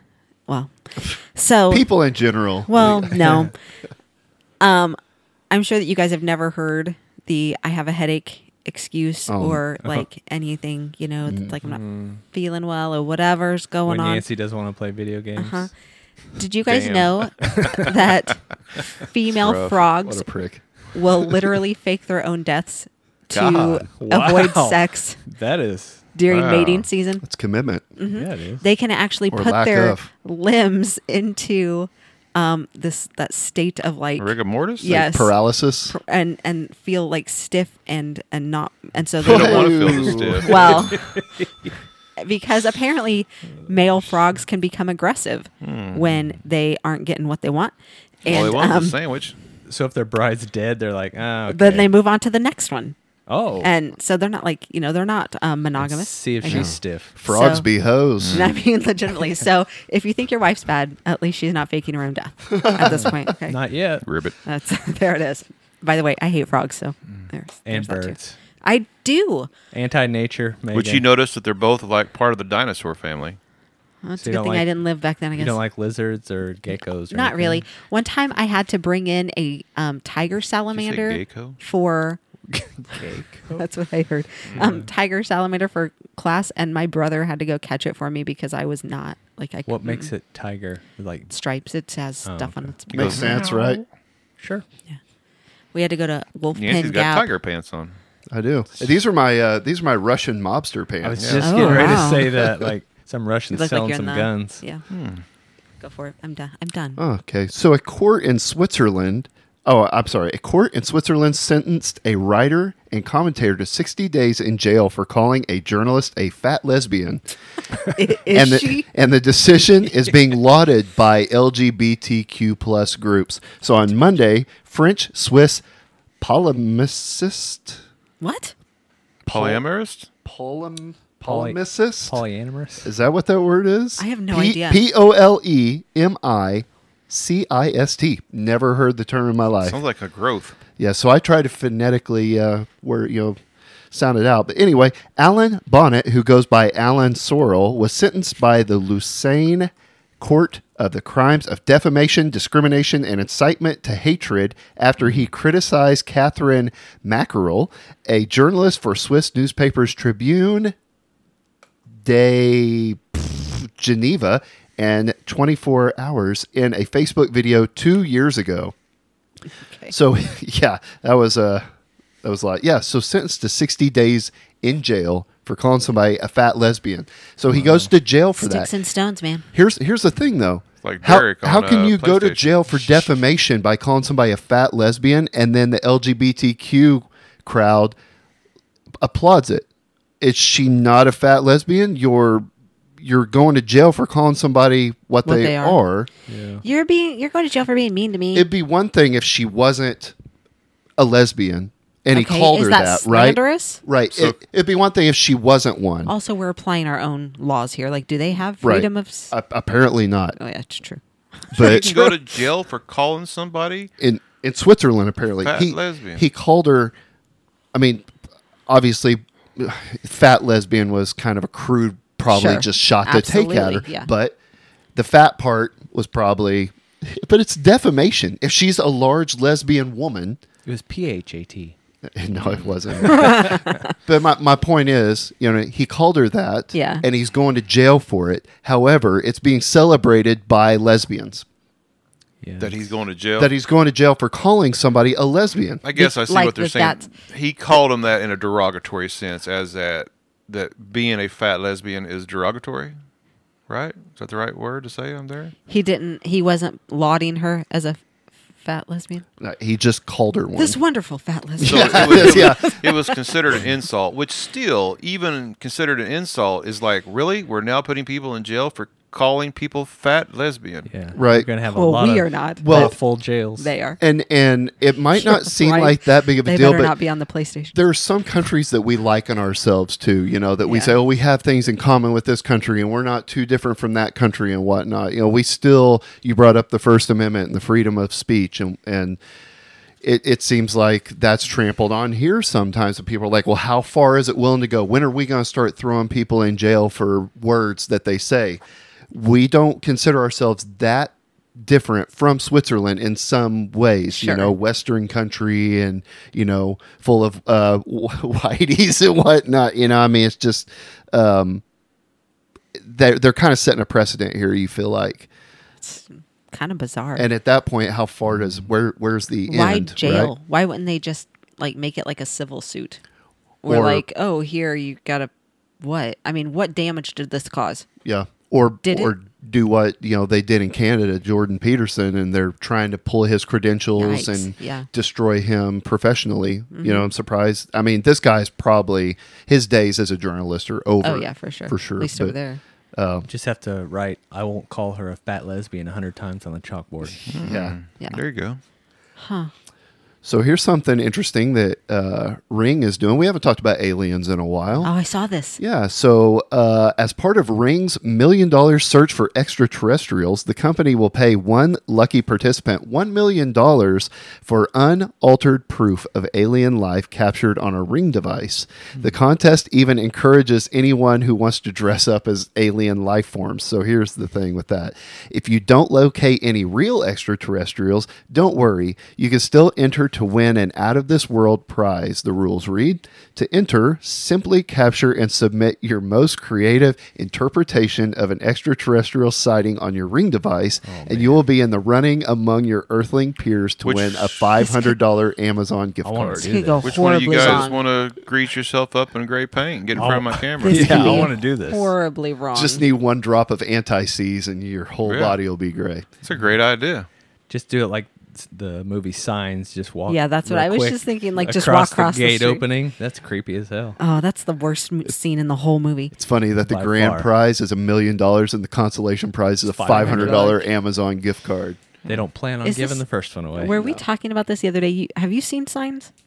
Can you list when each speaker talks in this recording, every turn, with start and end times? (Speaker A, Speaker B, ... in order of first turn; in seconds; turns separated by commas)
Speaker A: 0.5-1.9, Speaker B: 1.7-3.4, Speaker A: 2.6-3.5, Speaker A: 4.6-5.0, Speaker A: 5.5-14.2, Speaker B: 9.3-9.6, Speaker B: 11.2-11.6, Speaker C: 11.6-12.2, Speaker C: 13.9-15.7, Speaker A: 15.4-15.7, Speaker A: 16.4-20.2, Speaker C: 16.7-17.8, Speaker D: 19.3-19.8, Speaker B: 20.0-20.9, Speaker A: 20.9-25.2, Speaker D: 23.3-23.8, Speaker C: 23.4-26.0, Speaker A: 26.1-27.2, Speaker D: 26.3-26.9, Speaker B: 27.2-27.8, Speaker A: 28.0-35.3, Speaker C: 28.1-28.6, Speaker B: 29.3-30.1, Speaker D: 34.2-34.9, Speaker B: 34.8-36.0, Speaker A: 35.9-41.2, Speaker D: 39.2-41.0, Speaker B: 39.2-40.8, Speaker C: 40.9-41.7, Speaker A: 42.2-49.0, Speaker D: 45.6-46.2, Speaker D: 48.2-49.4, Speaker C: 49.6-51.9, Speaker A: 51.5-53.0, Speaker C: 53.3-53.7, Speaker A: 53.6-57.6, Speaker C: 55.8-57.1, Speaker B: 56.4-58.5, Speaker D: 58.2-58.6, Speaker A: 58.3-63.6, Speaker B: 62.5-63.1, Speaker C: 62.9-64.1, Speaker D: 64.0-64.3, Speaker A: 64.4-69.5, Speaker C: 67.7-68.4, Speaker C: 69.7-71.0, Speaker D: 70.7-73.4, Speaker A: 74.0-75.6, Speaker C: 74.2-74.7, Speaker C: 75.3-77.6, Speaker A: 77.1-82.2, Speaker D: 80.7-81.6, Speaker C: 82.5-83.7, Speaker A: 83.5-90.1, Speaker C: 84.5-84.9, Speaker C: 89.7-91.3, Speaker A: 91.3-93.5, Speaker C: 92.2-92.7, Speaker D: 92.9-93.8, Speaker B: 92.9-93.8, Speaker C: 94.4-94.6, Speaker A: 95.7-97.3, Speaker D: 96.5-98.0, Speaker B: 98.3-102.0, Speaker C: 101.0-104.6, Speaker D: 101.2-102.0, Speaker A: 101.4-102.3, Speaker A: 103.5-104.8, Speaker D: 104.9-105.2, Speaker A: 105.8-107.0, Speaker B: 107.0-117.2, Speaker A: 117.9-118.8, Speaker B: 118.3-125.6, Speaker B: 126.2-127.8, Speaker A: 128.2-128.5, Speaker B: 129.2-129.6, Speaker D: 129.3-130.1, Speaker B: 130.2-132.2, Speaker C: 131.2-132.9, Speaker B: 132.8-139.8, Speaker A: 134.0-134.8, Speaker D: 139.6-140.6, Speaker B: 140.8-143.4, Speaker B: 143.9-160.7, Speaker B: 161.9-168.7, Speaker A: 169.6-169.9, Speaker B: 169.9-171.7, Speaker B: 172.2-178.7, Speaker C: 177.5-177.9, Speaker A: 178.4-179.5, Speaker B: 179.5-187.9, Speaker D: 180.8-183.1, Speaker B: 189.0-189.7, Speaker B: 190.2-192.5, Speaker B: 193.0-196.1, Speaker A: 195.2-195.8, Speaker C: 196.3-196.6, Speaker A: 196.6-198.4, Speaker B: 198.3-200.1, Speaker B: 201.0-206.1, Speaker A: 202.1-203.8, Speaker D: 204.1-204.4, Speaker A: 206.1-209.3, Speaker B: 208.6-210.4, Speaker A: 210.3-212.0, Speaker B: 211.5-212.1, Speaker D: 211.6-213.9, Speaker B: 214.0-216.9, Speaker D: 215.4-216.2, Speaker B: 217.7-218.1, Speaker B: 218.7-224.3, Speaker A: 222.3-224.1, Speaker B: 224.9-230.4, Speaker C: 230.7-231.7, Speaker B: 232.1-241.4, Speaker D: 232.3-232.8, Speaker A: 233.1-233.8, Speaker A: 236.7-237.0, Speaker C: 242.4-242.8, Speaker D: 242.6-243.5, Speaker B: 243.4-245.8, Speaker D: 245.8-252.9, Speaker A: 245.9-247.1, Speaker D: 253.7-255.5, Speaker A: 255.7-258.0, Speaker A: 258.6-259.2, Speaker B: 259.4-260.8, Speaker A: 260.6-262.9, Speaker B: 261.6-262.8, Speaker D: 261.6-270.9, Speaker C: 270.9-273.7, Speaker B: 271.1-271.5, Speaker A: 271.6-273.0, Speaker B: 272.6-272.9, Speaker A: 273.6-274.0, Speaker B: 274.0-276.9, Speaker A: 275.2-277.8, Speaker B: 277.7-289.2, Speaker A: 280.6-280.9, Speaker B: 290.0-311.6, Speaker A: 304.1-304.5, Speaker B: 312.7-315.3, Speaker A: 315.8-317.3, Speaker B: 317.1-320.3, Speaker A: 319.5-323.0, Speaker A: 323.6-327.9, Speaker B: 323.6-324.0, Speaker B: 328.0-342.4, Speaker A: 328.8-329.1, Speaker A: 334.0-334.9, Speaker A: 336.7-337.1, Speaker A: 341.0-342.6, Speaker B: 342.9-343.3, Speaker C: 343.3-347.3, Speaker D: 347.2-348.6, Speaker B: 347.4-347.8, Speaker A: 349.2-349.5, Speaker B: 350.2-354.9, Speaker A: 354.8-355.6, Speaker B: 355.6-396.5, Speaker C: 390.8-391.4, Speaker D: 393.8-394.6, Speaker A: 394.6-394.9, Speaker C: 396.0-396.9, Speaker A: 396.4-397.8, Speaker D: 396.8-401.2, Speaker C: 399.9-401.9, Speaker A: 400.6-402.8, Speaker B: 400.9-401.2, Speaker B: 402.5-406.1, Speaker D: 405.0-405.4, Speaker D: 406.2-407.1, Speaker C: 407.5-414.0, Speaker A: 410.1-412.6, Speaker A: 414.0-416.1, Speaker B: 416.1-421.8, Speaker C: 416.6-417.3, Speaker C: 419.6-420.6, Speaker A: 419.9-420.6, Speaker C: 422.1-423.7, Speaker A: 422.6-426.1, Speaker B: 423.7-424.0